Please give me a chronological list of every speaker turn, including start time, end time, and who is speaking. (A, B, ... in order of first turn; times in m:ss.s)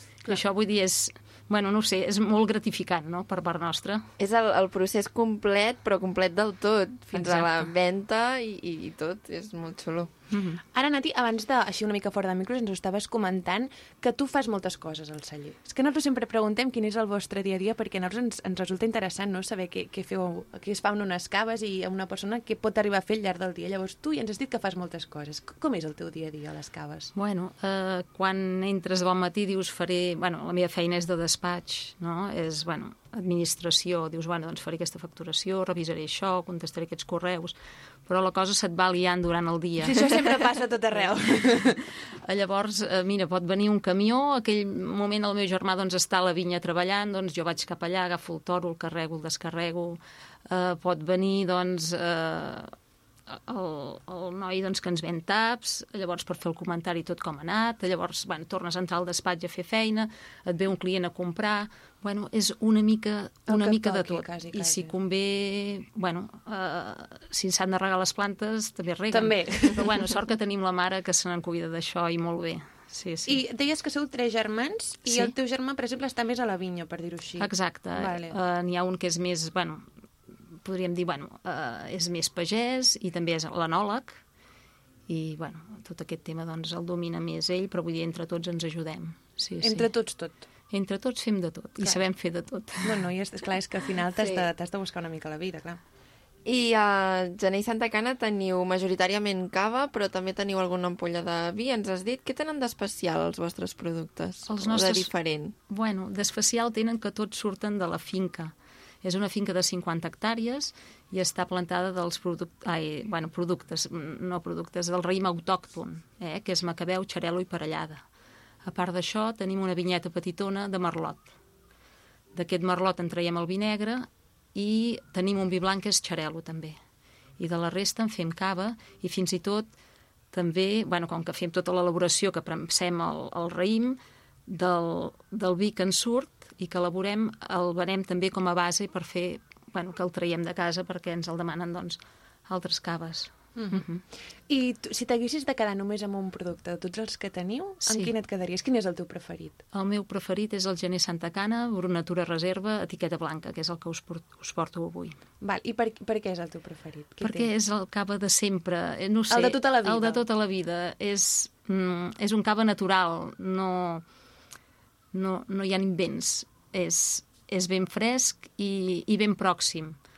0:00.3-0:04.1 A
0:04.2-0:10.1 B
0:07.2-0:07.5 A
0:10.3-0:10.6 A
0:10.7-0:27.1 C
0:27.2-0:40.2 A
0:39.8-0:41.8 C
0:42.2-0:52.7 A
0:53.3-1:13.4 A
1:03.5-1:05.0 C
1:09.1-1:10.1 C
1:13.3-1:18.4 C
1:15.1-1:15.3 A
1:17.4-1:19.9 A
1:20.6-1:24.2 A
1:25.1-1:29.9 A
1:29.6-1:30.4 C
1:30.7-1:33.0 A
1:32.8-1:35.8 C
1:34.2-1:34.5 A
1:36.5-1:45.6 B
1:44.5-1:45.1 A
1:45.7-1:58.0 A
1:58.6-2:01.3 A
2:02.3-2:06.8 A
2:07.4-2:09.7 A
2:10.3-2:24.0 A
2:23.6-2:23.8 C
2:24.5-2:29.6 C
2:27.8-2:28.1 A
2:29.7-2:35.2 A
2:35.4-2:37.5 C
2:37.2-2:44.0 A
2:39.3-2:40.2 C
2:45.1-2:50.0 A